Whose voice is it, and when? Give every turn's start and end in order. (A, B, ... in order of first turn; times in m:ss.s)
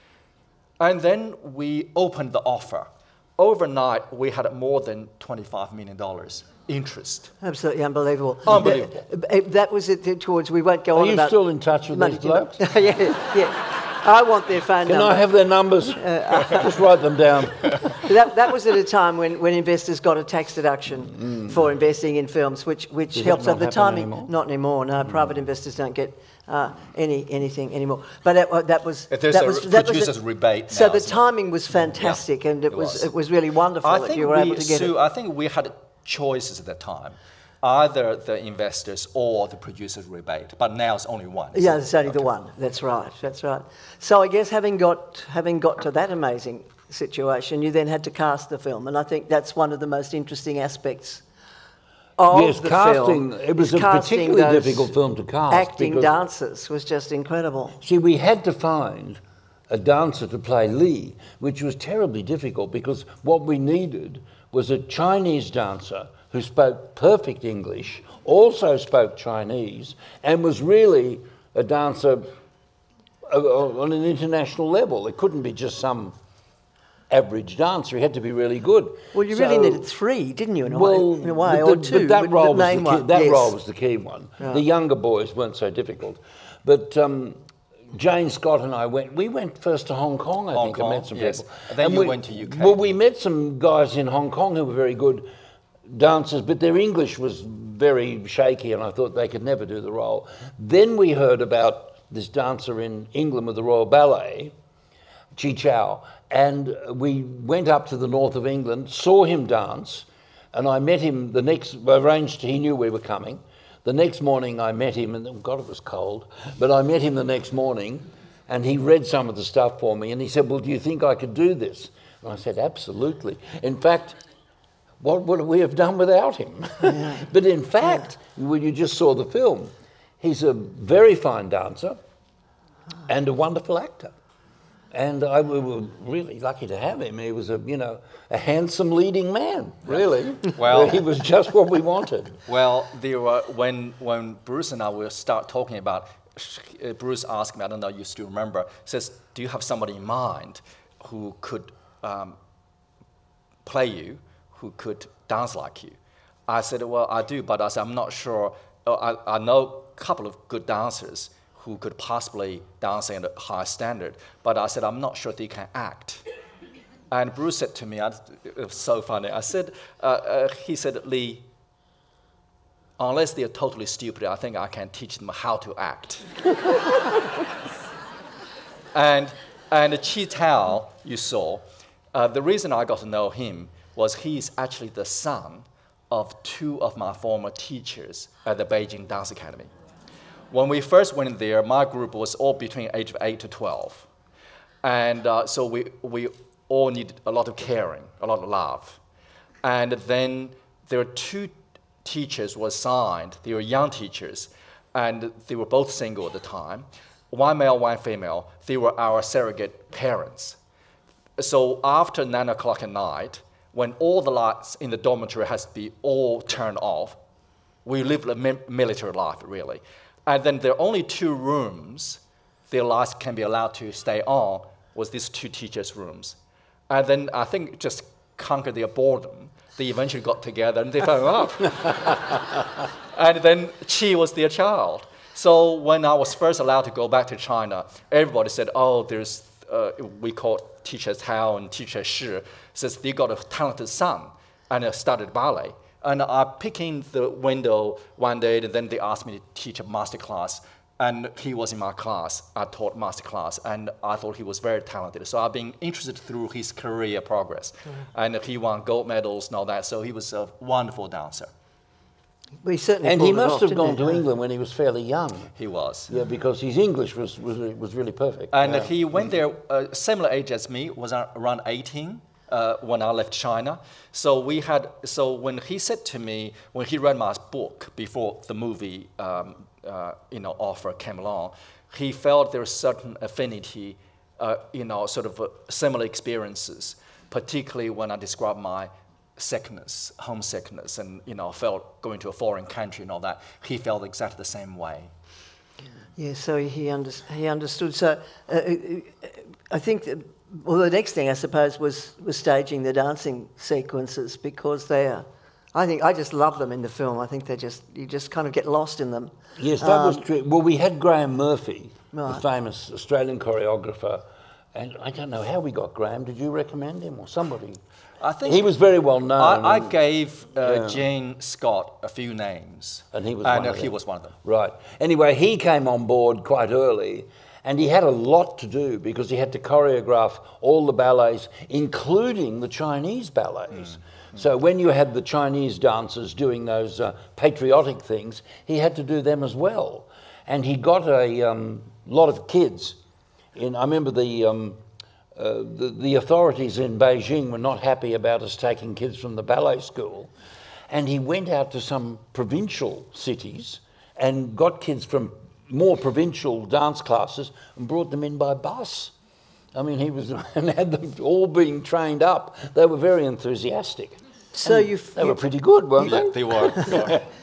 0:00.8-0:07.3 A
0:07.4-0:15.2 B
0:08.4-0:09.0 A
0:10.9-0:12.6 C
0:14.8-0:17.8 C
0:16.0-0:16.6 B
0:17.9-0:30.1 B
0:21.1-0:21.6 C
0:23.1-0:24.3 C
0:29.1-0:31.2 A
0:30.7-0:34.9 B
0:32.0-0:33.1 A
0:33.8-0:42.3 A
0:41.5-0:51.2 B
0:52.2-0:54.9 B
0:52.3-0:56.1 C
0:55.5-0:57.8 B
0:57.8-1:12.3 C
1:13.2-1:16.2 C
1:17.1-1:19.9 C
1:19.1-1:23.6 B
1:20.6-1:35.3 C
1:30.5-1:33.0 A
1:35.9-1:44.5 C
1:45.3-2:04.2 C
2:05.0-2:12.0 C
2:06.9-2:07.2 B
2:13.1-2:14.1 C
2:14.9-2:22.4 C
2:20.5-2:21.1 A
2:22.5-2:32.4 A
2:33.6-2:36.0 A
2:36.5-2:46.2 A
2:47.1-2:51.4 A
2:53.0-2:56.3 A
2:58.9-3:09.7 A
3:10.5-3:14.1 A
3:14.8-3:19.0 A
3:19.6-3:30.6 A
3:31.4-3:37.2 A
3:37.8-3:46.4 A
3:46.9-3:52.6 A
3:53.1-4:21.5 A
4:22.6-4:24.2 B
4:23.0-4:25.5 C
4:25.6-4:26.1 A
4:26.1-4:29.3 C
4:28.5-4:55.1 A
4:56.2-5:10.2 B
5:09.6-5:17.8 C
5:12.1-5:12.4 B
5:18.2-5:18.7 A
5:18.4-5:19.9 C
5:19.3-5:24.3 A
5:20.6-5:21.1 C
5:23.1-5:43.0 C
5:43.5-5:44.8 C
5:45.3-5:50.3 C
5:50.9-5:59.1 C
5:59.7-6:07.2 C
6:04.5-6:05.5 B
6:06.0-6:07.2 A